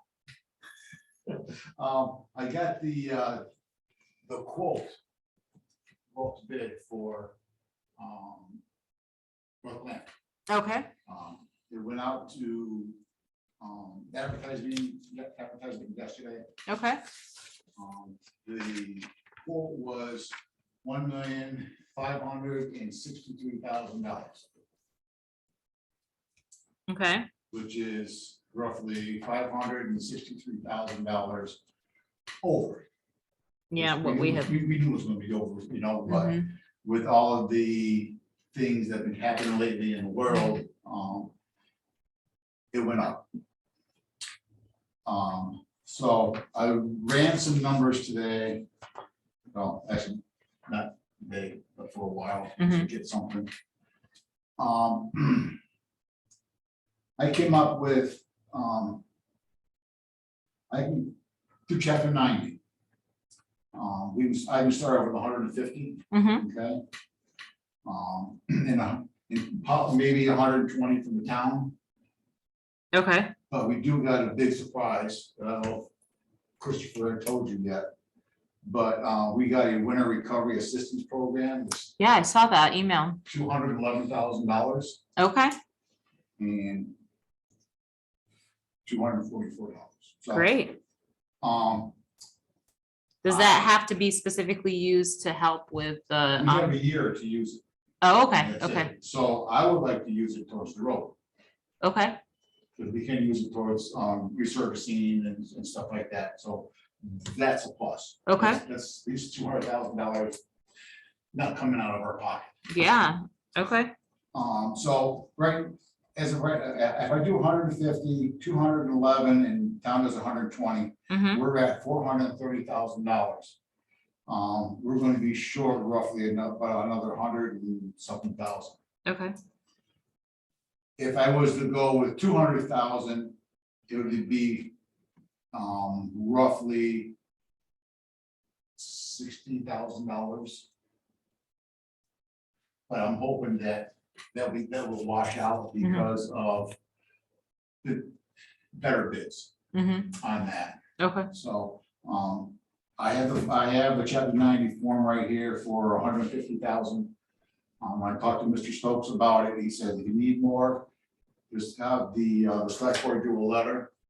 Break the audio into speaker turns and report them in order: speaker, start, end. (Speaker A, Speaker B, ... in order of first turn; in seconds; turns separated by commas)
Speaker A: 1.8-3.4, Speaker A: 4.2-5.0, Speaker A: 6.1-7.3, Speaker A: 8.0-8.6, Speaker A: 9.6-10.1, Speaker B: 10.5-10.9, Speaker A: 11.1-13.0, Speaker A: 13.6-16.4, Speaker B: 16.7-17.0, Speaker A: 17.8-24.5, Speaker B: 26.9-27.3, Speaker A: 27.5-31.6, Speaker A: 32.4-32.9, Speaker B: 33.7-34.6, Speaker A: 33.7-41.3, Speaker B: 36.1-36.5, Speaker A: 42.7-43.3, Speaker A: 45.0-48.7, Speaker A: 49.5-53.5, Speaker B: 52.6-52.9, Speaker A: 54.6-55.6, Speaker A: 57.2-59.0, Speaker A: 60.7-61.1, Speaker A: 61.7-62.6, Speaker A: 63.7-66.8, Speaker B: 66.1-66.5, Speaker A: 67.8-71.8, Speaker B: 72.9-73.3, Speaker A: 73.5-75.9, Speaker A: 76.6-77.9, Speaker A: 78.6-82.0, Speaker B: 82.0-83.2, Speaker A: 83.3-85.0, Speaker B: 85.2-85.5, Speaker A: 86.4-86.9, Speaker A: 88.8-90.5, Speaker B: 90.3-90.8, Speaker A: 91.4-92.0, Speaker B: 93.2-96.7, Speaker A: 93.3-93.7, Speaker A: 96.4-97.6, Speaker B: 98.0-98.9, Speaker A: 98.4-101.2, Speaker B: 101.8-102.2, Speaker A: 102.8-110.4, Speaker B: 108.3-108.6, Speaker A: 111.3-112.6, Speaker B: 112.7-113.9, Speaker A: 114.3-123.6, Speaker B: 121.1-121.4, Speaker A: 124.3-128.8, Speaker B: 129.1-129.3, Speaker A: 131.0-133.3, Speaker A: 133.9-134.7, Speaker A: 135.5-137.1, Speaker A: 138.8-140.7, Speaker A: 142.9-146.8, Speaker B: 145.8-146.1, Speaker A: 147.8-148.2, Speaker A: 148.7-149.5, Speaker B: 149.7-150.2, Speaker A: 150.2-157.1, Speaker B: 151.0-151.3, Speaker A: 157.8-160.9, Speaker A: 161.5-163.9